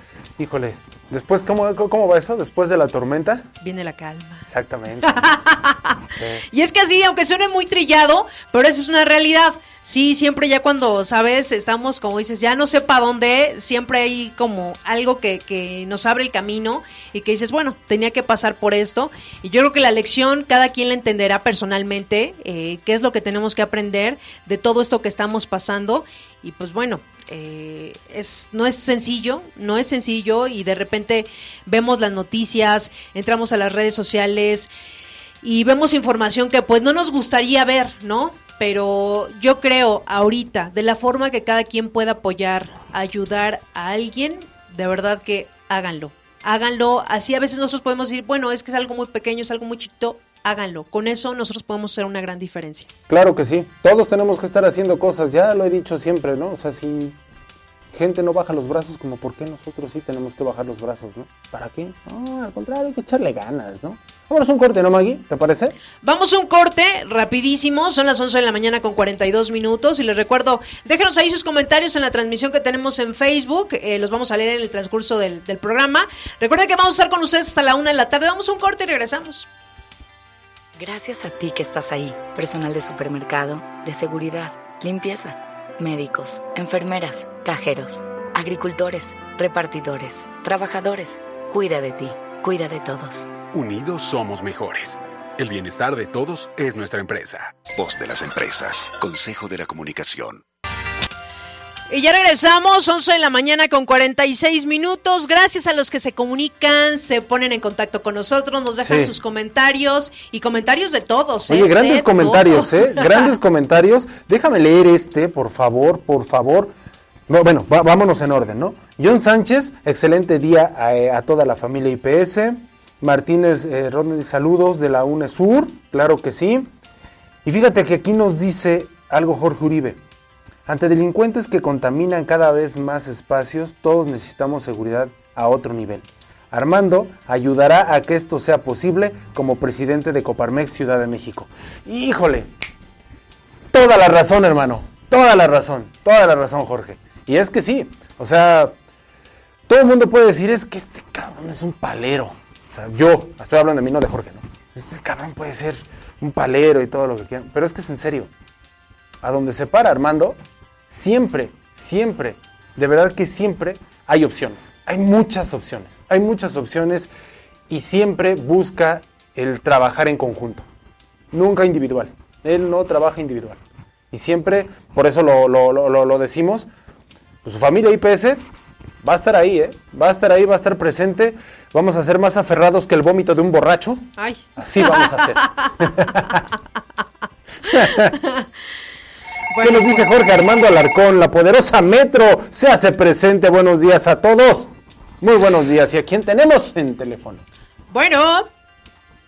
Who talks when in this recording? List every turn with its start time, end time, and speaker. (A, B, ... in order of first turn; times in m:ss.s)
0:00.4-0:03.5 A
0:03.6-0:04.5 B
0:04.5-0:05.4 A
0:05.1-0:06.0 B
0:06.1-0:06.4 A
0:06.5-0:34.7 B
0:35.4-0:52.9 B
0:53.1-0:57.2 A
0:57.9-1:05.8 A
1:06.0-1:19.5 B
1:20.8-1:33.3 C
1:33.5-1:37.6 D
1:37.7-1:40.4 E
1:41.9-1:53.1 B
1:48.8-1:49.1 A
1:51.5-1:56.7 A
1:57.3-2:06.7 A
2:07.4-2:10.0 A
2:10.7-2:22.5 A
2:23.7-2:28.7 A
2:29.7-2:38.3 A
2:39.2-2:40.4 A
2:40.9-2:47.1 A
2:47.7-2:50.7 A
2:51.3-2:56.7 A
2:57.4-2:58.4 A
2:59.0-3:06.4 A
3:04.2-3:05.7 B
3:07.6-3:08.2 A
3:07.7-3:08.4 B
3:09.5-3:10.1 B
3:09.6-3:17.4 A
3:17.9-3:18.5 B